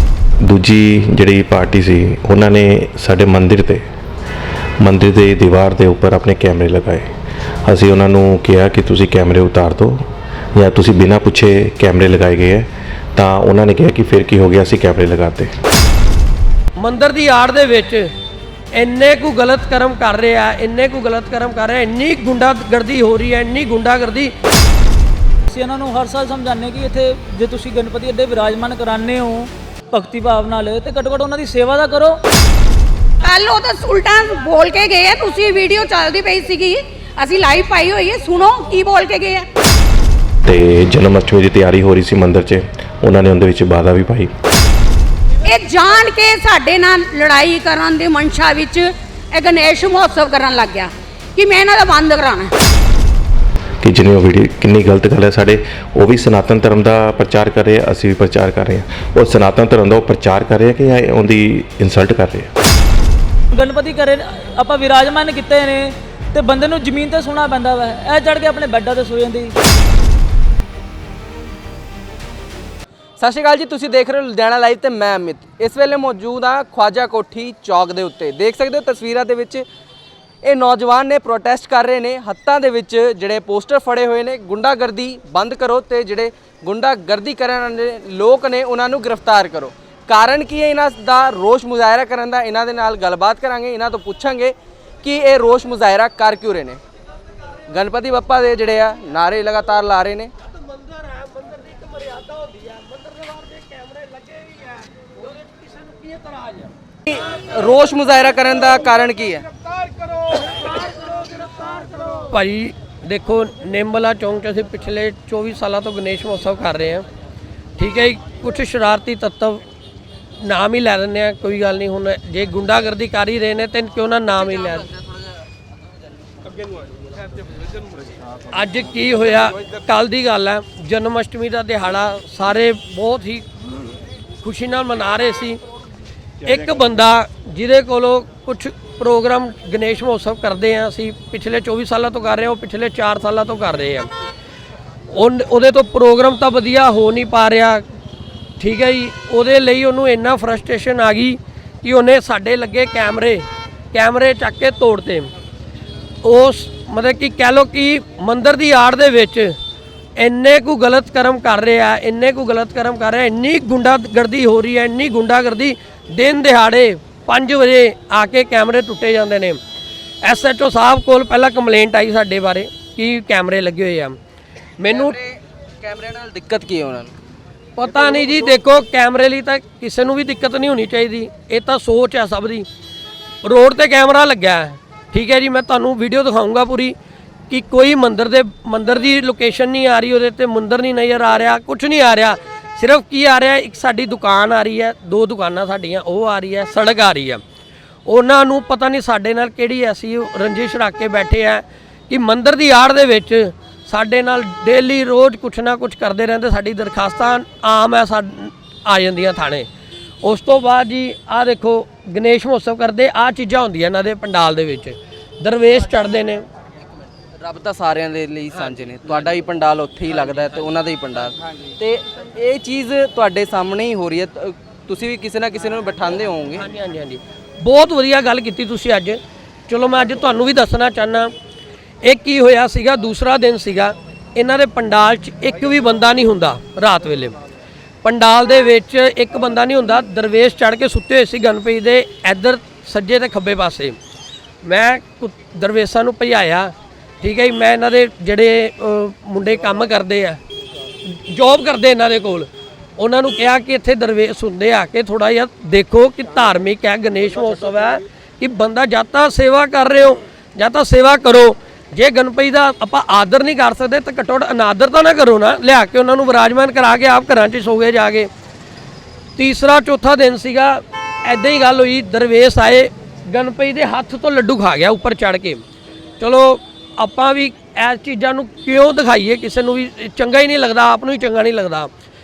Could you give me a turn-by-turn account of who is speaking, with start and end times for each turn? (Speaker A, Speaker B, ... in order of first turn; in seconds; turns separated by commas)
Speaker A: 0.4-3.8, Speaker A: 4.8-7.1, Speaker A: 7.7-15.5, Speaker B: 16.8-18.1, Speaker B: 18.7-24.3, Speaker C: 25.5-32.2, Speaker D: 33.2-39.5, Speaker A: 40.4-44.3, Speaker D: 45.4-52.5, Speaker A: 53.8-62.5, Speaker C: 63.5-69.5, Speaker E: 73.2-79.6, Speaker E: 80.5-96.8, Speaker E: 97.7-100.3, Speaker E: 107.1-109.5, Speaker B: 112.1-117.0, Speaker B: 117.8-119.6, Speaker B: 120.4-124.9, Speaker B: 128.5-135.6, Speaker B: 136.4-144.1, Speaker B: 145.1-147.8, Speaker B: 148.6-155.3, Speaker B: 156.2-159.5, Speaker B: 160.2-169.6, Speaker B: 170.2-174.2, Speaker B: 174.8-175.2, Speaker E: 174.9-177.1, Speaker B: 177.8-182.7, Speaker B: 183.4-186.9, Speaker B: 187.5-197.4, Speaker B: 198.1-209.7, Speaker B: 210.2-216.4, Speaker E: 217.4-226.6, Speaker B: 226.5-231.3, Speaker B: 232.0-237.3, Speaker B: 238.0-243.9, Speaker B: 244.6-250.4, Speaker B: 251.3-268.3, Speaker B: 269.4-275.6, Speaker B: 276.2-281.9